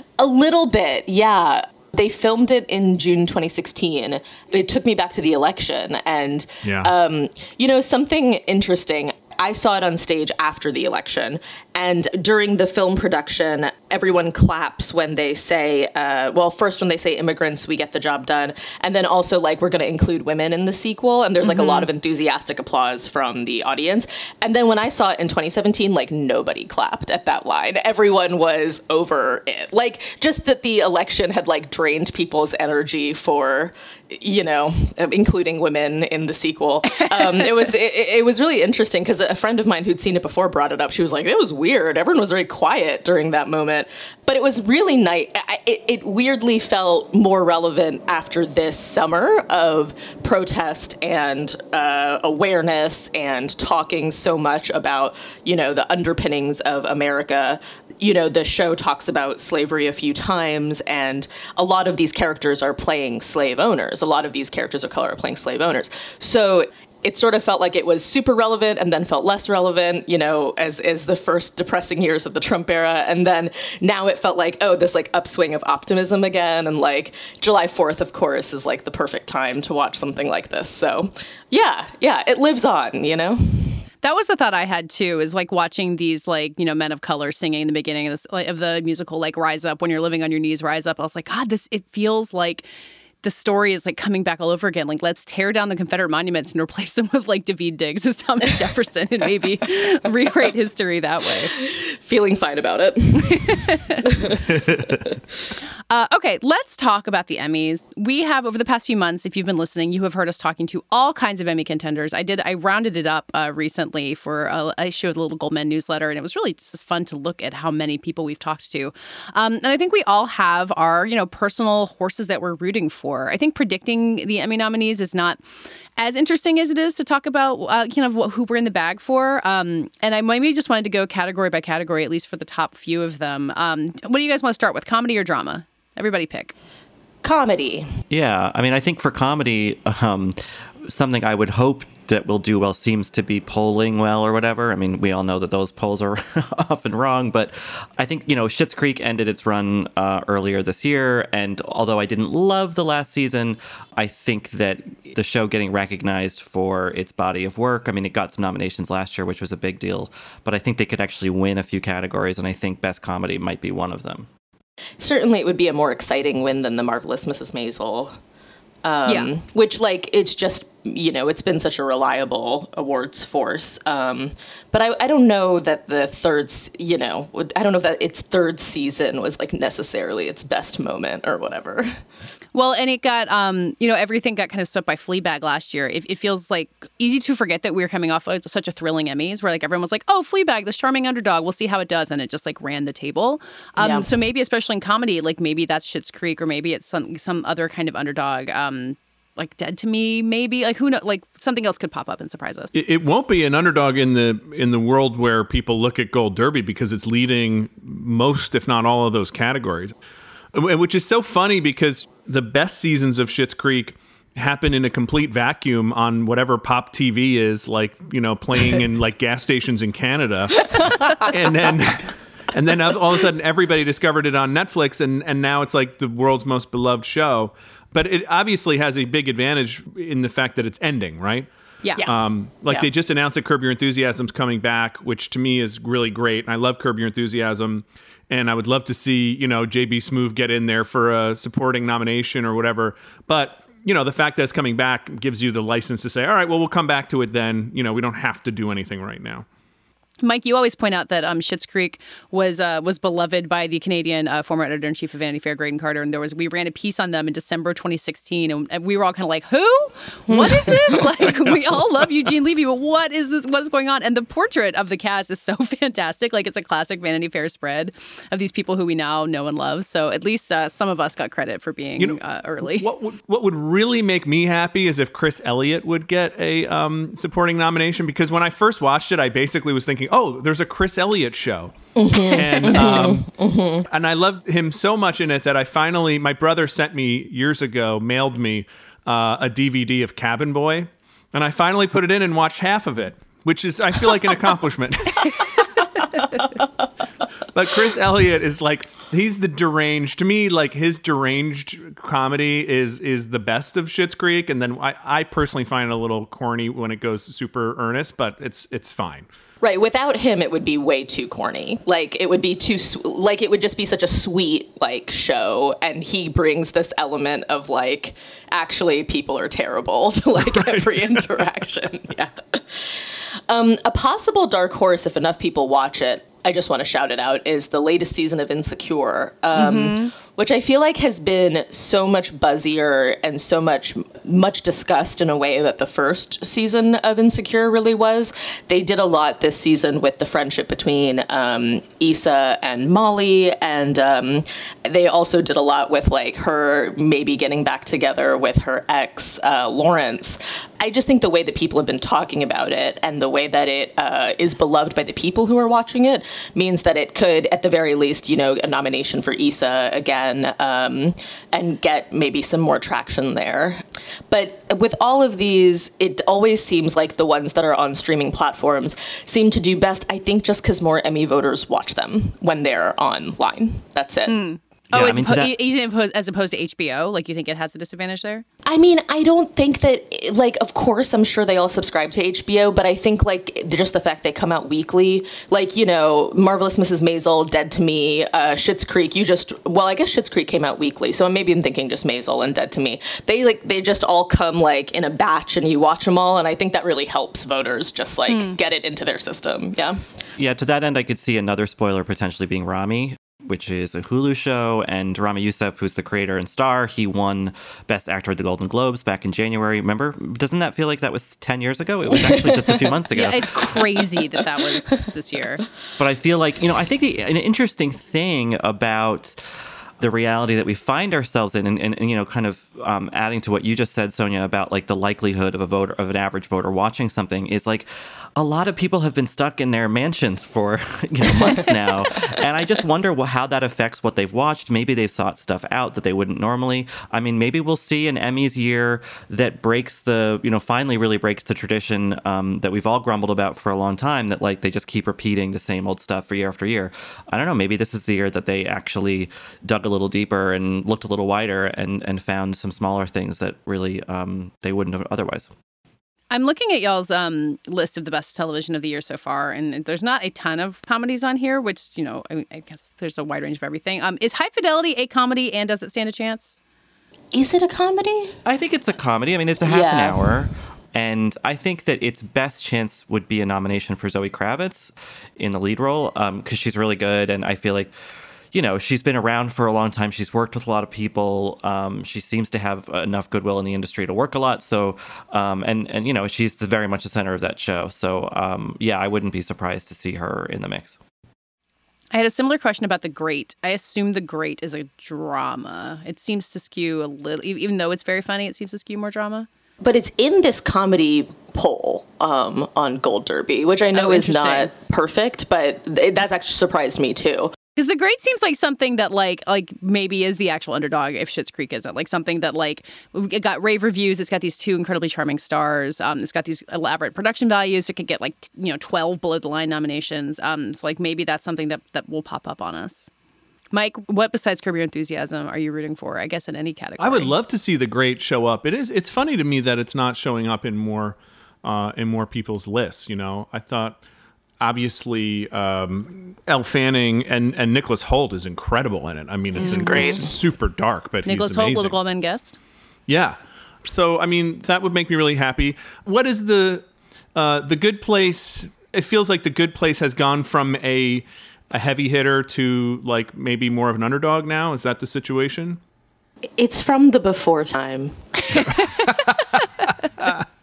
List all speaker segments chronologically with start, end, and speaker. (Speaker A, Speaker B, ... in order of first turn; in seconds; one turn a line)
Speaker A: 0.2-83.8
Speaker B: 6.6-6.9
Speaker C: 21.4-21.9
Speaker C: 37.0-37.5
Speaker C: 84.0-92.7
Speaker C: 93.2-101.5
Speaker A: 101.5-103.5
Speaker C: 103.3-104.0
Speaker A: 104.1-104.4
Speaker C: 105.9-125.4
Speaker C: 126.0-136.5
Speaker A: 137.2-137.9
Speaker D: 138.1-164.3
Speaker A: 165.0-168.2
Speaker A: 168.8-182.0
Speaker C: 182.5-202.7
Speaker A: 193.8-194.1
Speaker B: 202.7-209.9
Speaker B: 210.5-231.5
Speaker C: 231.8-232.1
Speaker B: 232.0-249.5
Speaker C: 250.2-272.9
Speaker A: 260.3-260.8
Speaker B: 261.2-261.8
Speaker B: 272.0-283.3
Speaker A: 282.0-283.9
Speaker B: 283.9-295.6
Speaker B: 297.5-309.3
Speaker A: 309.6-374.4
Speaker B: 320.4-321.4
Speaker C: 329.5-330.1
Speaker C: 374.3-378.4
Speaker D: 374.9-375.6
Speaker A: 378.6-400.0
Speaker C: 398.3-398.6
Speaker D: 400.4-413.5
Speaker A: 412.5-412.9
Speaker C: 413.1-415.6
Speaker D: 416.0-419.4
Speaker D: 420.0-455.5
Speaker C: 456.3-466.6
Speaker A: 467.3-468.3
Speaker D: 468.4-477.9
Speaker A: 469.6-470.4
Speaker D: 478.5-491.0
Speaker C: 492.1-499.5
Speaker A: 499.8-507.5
Speaker C: 503.9-504.7
Speaker C: 507.8-523.1
Speaker C: 523.7-527.4
Speaker B: 527.0-534.0
Speaker B: 534.6-542.0
Speaker A: 539.6-540.3
Speaker C: 539.6-540.3
Speaker C: 541.2-542.6
Speaker B: 543.1-555.8
Speaker A: 556.6-558.6
Speaker C: 558.5-558.8
Speaker B: 558.8-559.4